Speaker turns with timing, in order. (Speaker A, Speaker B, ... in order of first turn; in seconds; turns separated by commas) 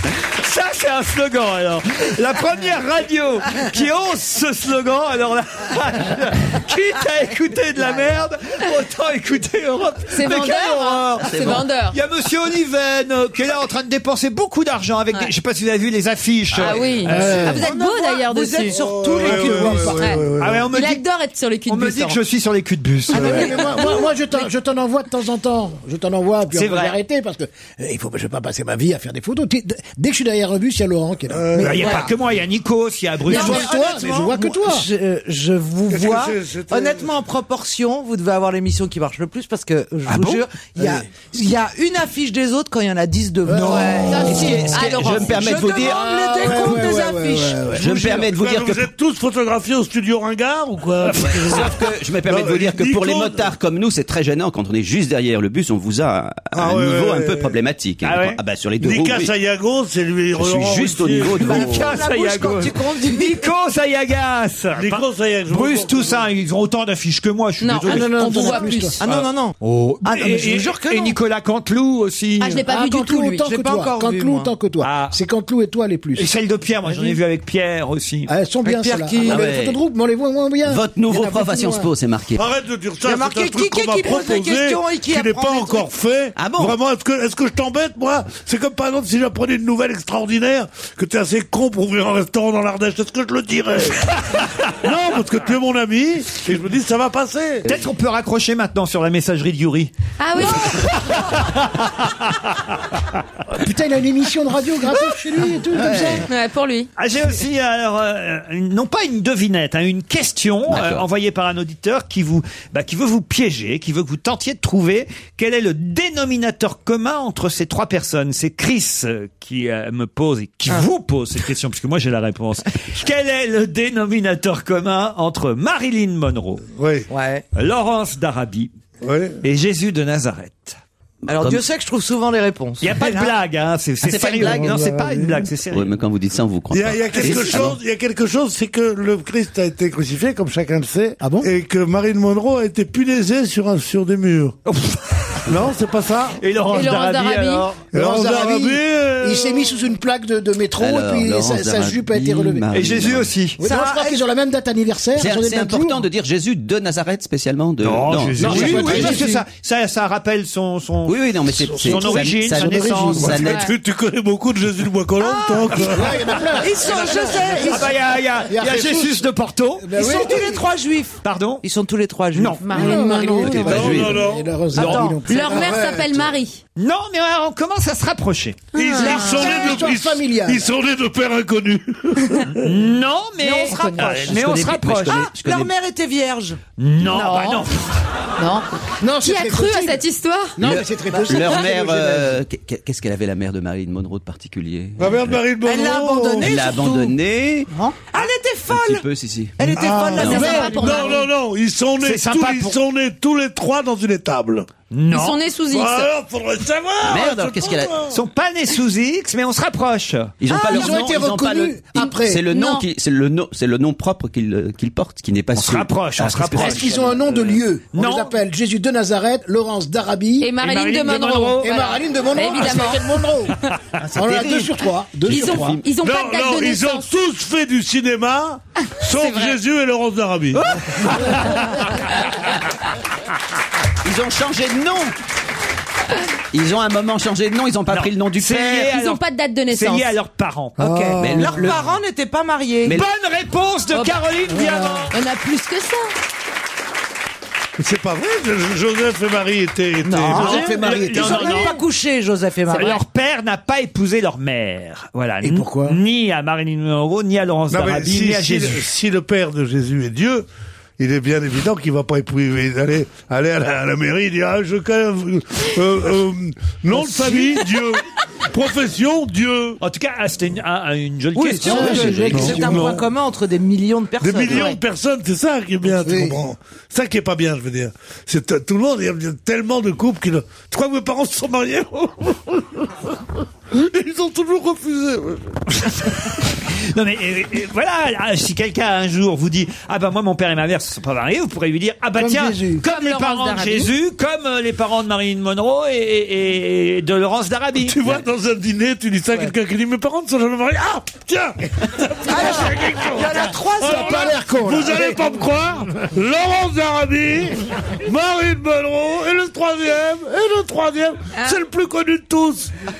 Speaker A: 0.4-17.4, Speaker B: 10.1-12.0, Speaker C: 11.2-11.7, Speaker B: 16.6-18.8, Speaker D: 17.1-17.6, Speaker E: 17.2-20.1, Speaker F: 18.7-20.7, Speaker D: 19.1-20.1, Speaker A: 20.4-21.0, Speaker B: 20.7-22.2, Speaker A: 21.7-23.5, Speaker D: 23.1-32.0, Speaker B: 23.1-24.1, Speaker A: 26.5-26.9, Speaker F: 31.3-31.8, Speaker A: 31.6-33.7, Speaker E: 33.2-47.7, Speaker D: 33.3-34.9, Speaker F: 33.5-34.2, Speaker F: 35.9-37.1, Speaker A: 40.1-40.4, Speaker D: 43.5-44.5, Speaker F: 43.7-44.2, Speaker C: 44.1-46.6, Speaker B: 44.7-46.2, Speaker D: 46.1-48.1, Speaker C: 47.7-48.9, Speaker F: 47.8-53.5, Speaker A: 51.0-51.6, Speaker C: 51.2-59.3, Speaker F: 56.5-57.5, Speaker A: 58.0-58.4, Speaker F: 58.8-61.7, Speaker C: 60.3-61.9, Speaker E: 61.4-63.4, Speaker A: 61.4-68.7, Speaker F: 64.7-66.3, Speaker B: 67.6-69.0, Speaker D: 67.8-69.0, Speaker E: 69.0-71.2, Speaker A: 69.6-72.6, Speaker B: 72.4-73.5, Speaker D: 72.7-76.3, Speaker E: 73.4-74.5, Speaker A: 74.8-75.2, Speaker A: 76.2-78.3, Speaker E: 76.9-77.2, Speaker D: 78.3-81.9, Speaker E: 78.6-79.5, Speaker C: 79.2-79.8, Speaker C: 80.6-82.4, Speaker F: 82.3-97.6, Speaker E: 83.0-85.9, Speaker C: 86.3-86.8, Speaker A: 97.6-99.9, Speaker B: 100.2-101.0, Speaker A: 100.5-102.7, Speaker D: 103.5-106.3, Speaker C: 105.7-106.2, Speaker B: 106.2-106.9, Speaker A: 107.0-126.6, Speaker C: 110.7-111.0, Speaker F: 126.8-127.1, Speaker E: 127.1-127.4, Speaker A: 127.5-128.7, Speaker F: 129.0-129.4, Speaker A: 129.4-130.8, Speaker E: 131.3-133.3, Speaker C: 131.3-131.6, Speaker A: 132.8-135.9, Speaker C: 134.0-134.8, Speaker C: 135.7-137.8, Speaker F: 136.7-144.6, Speaker A: 137.1-137.7, Speaker D: 141.2-141.5, Speaker A: 144.7-145.4, Speaker F: 145.5-146.4, Speaker A: 146.4-147.8, Speaker B: 146.7-147.8, Speaker F: 147.9-149.7, Speaker D: 147.9-152.7, Speaker C: 150.8-153.3, Speaker A: 152.7-153.6, Speaker D: 153.6-156.1, Speaker E: 153.6-154.2, Speaker C: 155.2-159.2, Speaker A: 157.8-161.2, Speaker D: 158.4-159.4, Speaker E: 158.5-159.1, Speaker C: 161.1-163.7, Speaker A: 161.8-163.3, Speaker D: 162.4-163.3, Speaker F: 163.2-166.3, Speaker B: 163.4-163.7, Speaker B: 165.2-165.6, Speaker D: 165.8-170.7, Speaker E: 166.6-167.9, Speaker A: 167.6-169.9, Speaker E: 169.9-173.1, Speaker A: 171.2-171.6, Speaker A: 172.3-172.7, Speaker B: 172.6-173.7, Speaker D: 172.7-176.1, Speaker C: 173.4-174.2, Speaker F: 173.5-174.5, Speaker E: 174.7-175.5, Speaker A: 174.7-175.1, Speaker B: 175.3-176.6, Speaker F: 175.5-176.3, Speaker A: 176.8-178.7, Speaker B: 178.7-179.8, Speaker F: 178.7-182.6, Speaker D: 179.1-180.6, Speaker A: 182.5-185.2, Speaker E: 183.4-186.6, Speaker C: 184.1-185.7, Speaker A: 186.8-187.9, Speaker B: 187.1-187.7, Speaker B: 188.4-188.7, Speaker D: 189.0-190.0, Speaker B: 189.2-190.6, Speaker D: 190.6-192.4, Speaker C: 190.6-195.4, Speaker E: 191.1-191.6, Speaker F: 195.0-196.5, Speaker E: 195.6-197.2, Speaker C: 196.4-197.7, Speaker E: 198.1-199.0, Speaker C: 198.7-200.7, Speaker E: 199.6-201.2, Speaker F: 199.7-204.7, Speaker B: 200.2-201.3, Speaker A: 202.0-202.8, Speaker A: 204.9-205.4, Speaker B: 205.1-206.1, Speaker F: 205.7-208.2, Speaker C: 207.1-207.9, Speaker A: 208.1-210.3, Speaker C: 210.4-217.4, Speaker D: 210.6-212.4, Speaker B: 212.5-212.8, Speaker A: 215.6-217.1, Speaker D: 216.6-220.5, Speaker A: 217.9-218.3, Speaker B: 220.4-223.1, Speaker A: 220.6-221.7, Speaker D: 221.6-223.6, Speaker C: 224.0-225.8, Speaker D: 224.1-225.8, Speaker B: 225.2-227.1, Speaker F: 225.9-231.1, Speaker B: 229.0-229.6, Speaker A: 230.6-232.0, Speaker C: 234.0-235.1, Speaker C: 236.5-238.9, Speaker A: 237.9-240.8, Speaker B: 238.8-240.1, Speaker E: 240.8-243.0, Speaker F: 240.8-241.2, Speaker C: 241.2-241.8, Speaker A: 242.9-245.1, Speaker B: 243.9-244.2, Speaker B: 245.1-246.1, Speaker F: 247.8-250.7, Speaker E: 250.0-253.0, Speaker A: 250.3-251.8, Speaker D: 250.3-251.7, Speaker B: 252.7-253.0, Speaker A: 252.7-258.8, Speaker D: 255.4-256.0, Speaker F: 257.7-260.4, Speaker F: 261.0-269.8, Speaker E: 267.0-267.4, Speaker A: 269.8-272.5, Speaker E: 271.3-274.7, Speaker D: 271.5-273.0, Speaker F: 271.8-273.1, Speaker F: 274.2-283.2, Speaker D: 276.0-276.4, Speaker F: 283.7-285.6, Speaker A: 285.8-298.0, Speaker D: 292.2-292.8, Speaker B: 292.8-293.9, Speaker F: 297.8-312.7, Speaker E: 302.2-304.3, Speaker D: 303.8-305.4